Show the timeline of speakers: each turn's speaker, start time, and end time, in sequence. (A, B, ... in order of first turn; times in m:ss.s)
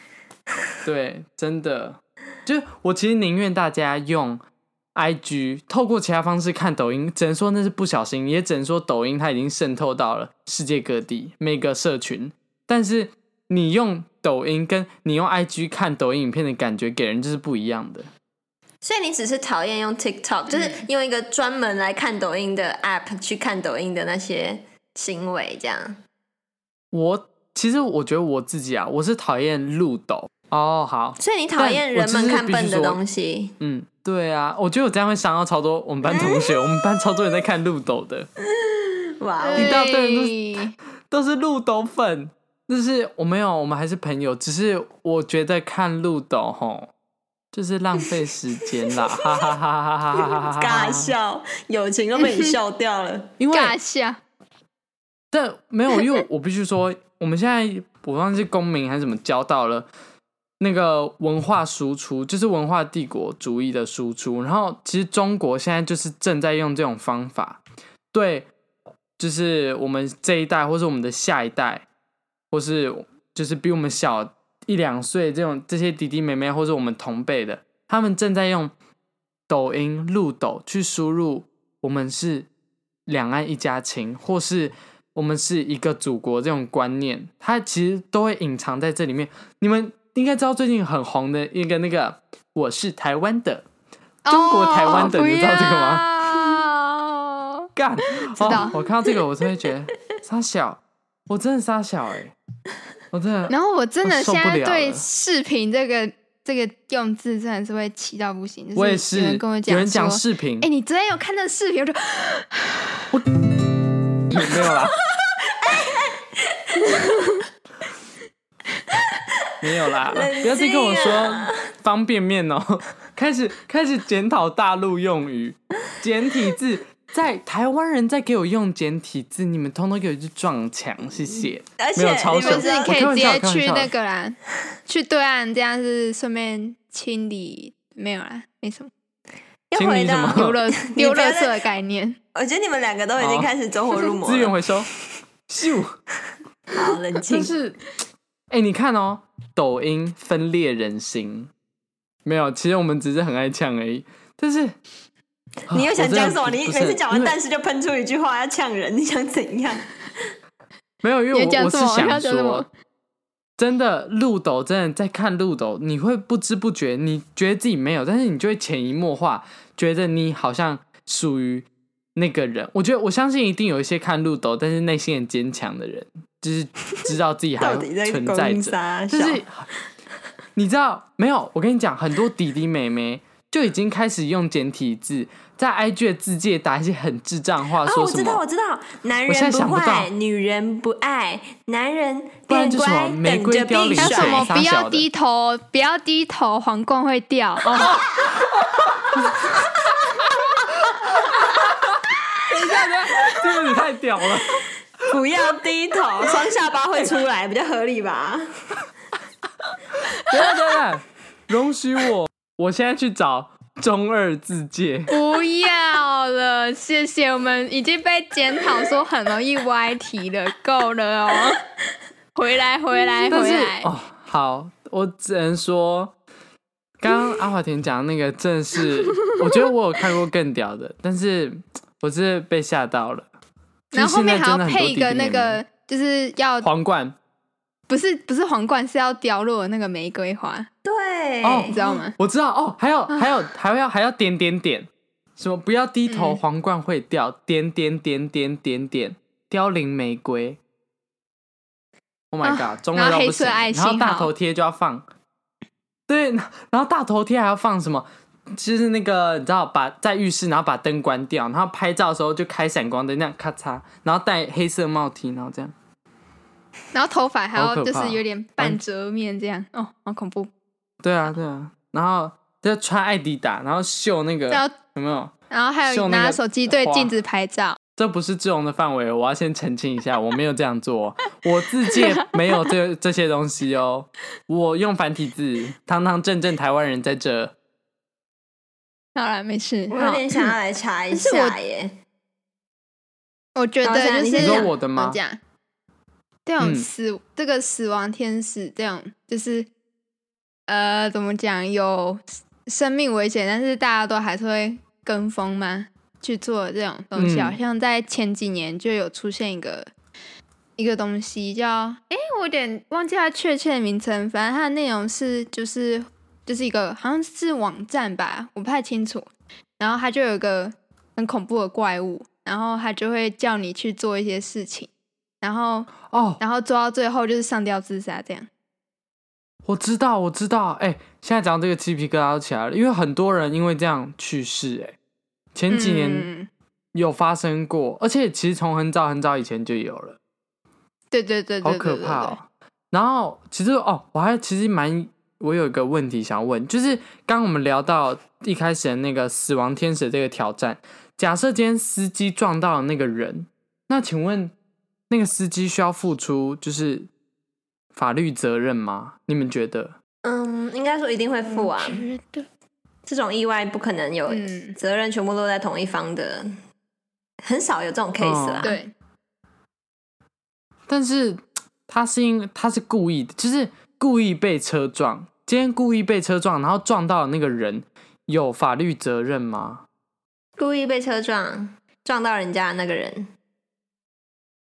0:00.8-0:04.4 A
0:05.0-0:18.1 A
0:18.8-0:26.0 B
0:26.9-0:33.0 A
0:31.2-0:33.5 B
0:33.6-0:38.3 A
0:36.0-0:36.9 B
0:38.4-0:39.8 B
0:39.4-0:40.7 C
0:39.5-0:40.4 A
0:41.1-0:46.9 A
0:47.5-0:51.1 A
0:49.1-0:49.5 B
0:50.2-0:53.4 B
0:52.2-0:52.5 C
0:53.4-0:53.8 A
0:53.5-0:54.2 C
0:55.3-0:59.9 A
1:00.6-1:07.6 A
1:08.1-1:08.5 A
1:09.2-1:11.8 A
1:12.5-1:18.7 A
1:19.5-1:22.5 A
1:23.1-1:33.6 A
1:34.2-1:38.7 C
1:34.3-1:36.4 A
1:37.8-1:42.3 A
1:43.1-1:45.0 A
1:43.5-1:52.9 C
1:48.8-1:50.7 A
1:54.3-1:55.0 A
1:55.5-1:57.1 B
1:56.8-1:57.4 C
1:59.6-2:13.9 A
2:00.0-2:01.6 B
2:11.8-2:13.3 B
2:12.4-2:18.9 C
2:19.7-2:21.6 B
2:19.8-2:20.6 A
2:20.3-2:22.2 C
2:22.3-2:24.6 B
2:23.2-2:23.5 A
2:24.2-2:24.9 A
2:25.5-2:26.0 A
2:26.7-2:27.5 B
2:27.3-2:27.8 A
2:28.5-2:31.5 A
2:32.2-2:34.8 A
2:35.7-2:37.3 A
2:35.7-2:39.9 B
2:41.0-2:42.7 A
2:41.3-2:42.7 C
2:43.6-2:59.7 A
2:57.6-2:59.4 B
3:00.6-3:08.4 A
3:07.8-3:14.5 B
3:09.3-3:10.1 A
3:12.5-3:15.0 A
3:14.0-3:18.0 C
3:17.6-3:19.5 A
3:20.2-3:20.6 B
3:21.1-3:24.7 A
3:23.2-3:23.5 B
3:25.0-3:28.5 B
3:30.2-3:35.1 A
3:35.1-3:41.6 C
3:42.3-3:43.9 C
3:43.3-3:46.2 A
3:47.0-3:53.3 A
3:53.9-3:55.6 A
3:53.9-3:56.7 C
3:56.6-3:57.2 A
3:57.9-4:00.7 C
4:00.8-4:01.8 B
4:01.4-4:10.6 A
4:01.7-4:02.2 C
4:06.1-4:06.4 C
4:12.3-4:15.0 A
4:12.4-4:14.3 C
4:16.1-4:25.7 A
4:26.9-4:30.5 C
4:27.6-4:28.8 A
4:31.0-4:35.3 A
4:35.5-4:37.8 C
4:35.8-4:37.1 A
4:38.0-4:47.5 A
4:41.9-4:42.2 C
4:49.2-4:50.5 C
4:49.9-4:51.9 B
4:51.1-4:51.6 C
4:53.5-4:55.4 C
4:53.8-4:54.7 B
4:54.4-4:55.2 A
4:56.5-4:59.7 C
4:56.6-4:56.9 A
5:00.7-5:09.9 C
5:07.2-5:07.6 A
5:10.8-5:24.9 C
5:25.4-5:28.5 C
5:26.0-5:26.4 A
5:29.6-5:35.0 A
5:35.5-5:36.3 A
5:35.7-5:36.5 C
5:36.9-5:40.2 A
5:41.1-5:42.4 C
5:41.6-5:54.5 A
5:55.1-5:57.1 A
5:57.9-6:00.0 A
6:00.2-6:02.0 B
6:01.5-6:02.5 C
6:03.0-6:06.5 B
6:04.3-6:04.8 C
6:07.4-6:08.8 B
6:08.2-6:08.8 A
6:08.6-6:08.9 C
6:10.9-6:19.8 A
6:20.6-6:23.3 B